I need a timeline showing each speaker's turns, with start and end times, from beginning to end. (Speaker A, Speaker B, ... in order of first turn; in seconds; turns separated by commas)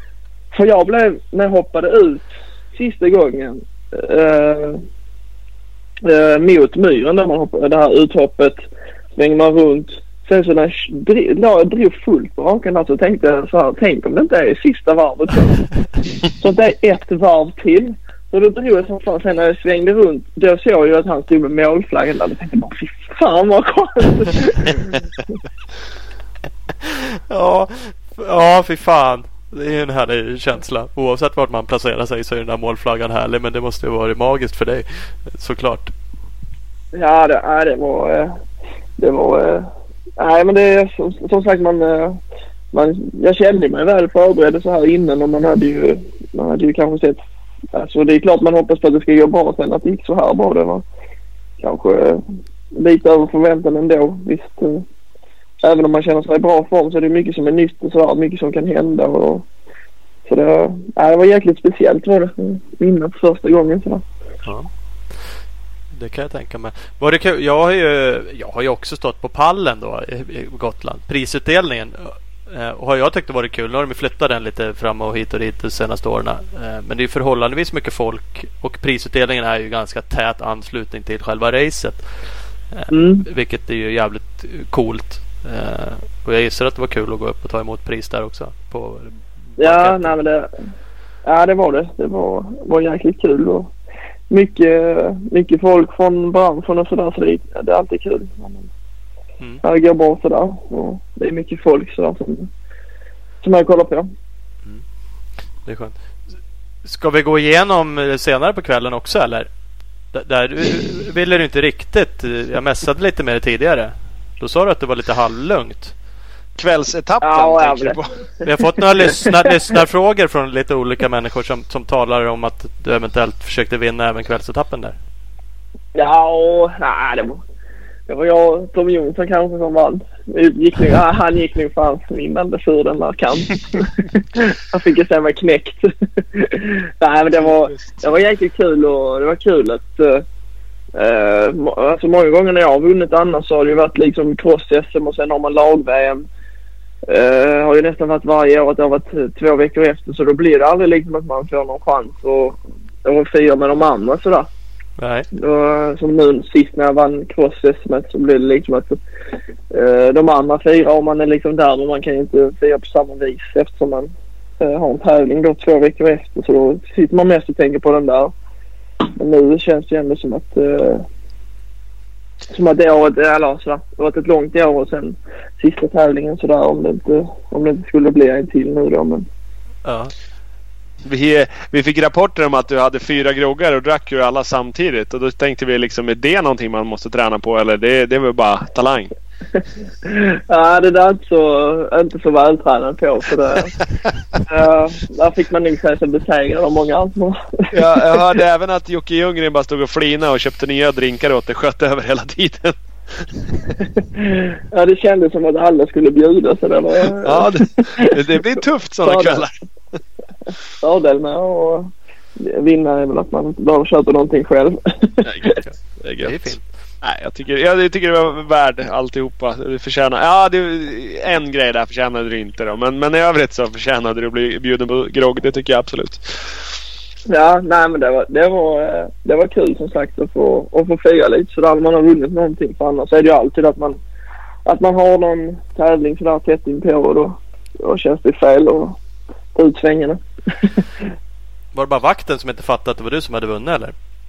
Speaker A: 0.5-4.8, Speaker A: 6.0-8.6, Speaker A: 9.2-25.0, Speaker B: 26.8-35.9, Speaker A: 36.9-38.3, Speaker A: 39.0-42.2, Speaker A: 42.7-47.2, Speaker A: 47.7-50.8, Speaker A: 51.6-52.2, Speaker A: 52.7-54.8, Speaker A: 55.6-59.4, Speaker A: 60.2-64.0, Speaker B: 64.4-64.7, Speaker B: 65.9-82.1, Speaker B: 82.7-90.2, Speaker A: 82.9-83.2, Speaker A: 89.6-90.5, Speaker A: 91.2-93.7, Speaker A: 94.3-98.7, Speaker A: 99.6-102.5, Speaker A: 103.4-104.1, Speaker B: 105.6-106.0, Speaker B: 106.8-109.5, Speaker B: 110.1-115.9, Speaker C: 116.6-118.1, Speaker A: 117.2-118.0, Speaker B: 118.4-125.0, Speaker A: 125.9-127.4, Speaker A: 128.1-140.2, Speaker C: 137.3-138.1, Speaker A: 140.9-146.2, Speaker A: 147.1-154.5, Speaker B: 155.0-155.3, Speaker A: 155.3-159.0, Speaker A: 159.7-168.3, Speaker A: 169.0-171.0, Speaker A: 172.5-179.3, Speaker B: 179.8-180.1, Speaker C: 181.0-189.1, Speaker A: 190.0-193.8, Speaker A: 194.4-198.2, Speaker C: 197.7-203.7, Speaker A: 204.2-208.2, Speaker C: 207.2-209.5, Speaker A: 209.0-209.5, Speaker A: 210.8-215.4, Speaker B: 215.4-216.6, Speaker C: 216.0-216.5, Speaker C: 217.0-226.6, Speaker A: 227.3-234.0, Speaker A: 234.7-239.0, Speaker A: 239.5-240.8, Speaker B: 241.7-243.9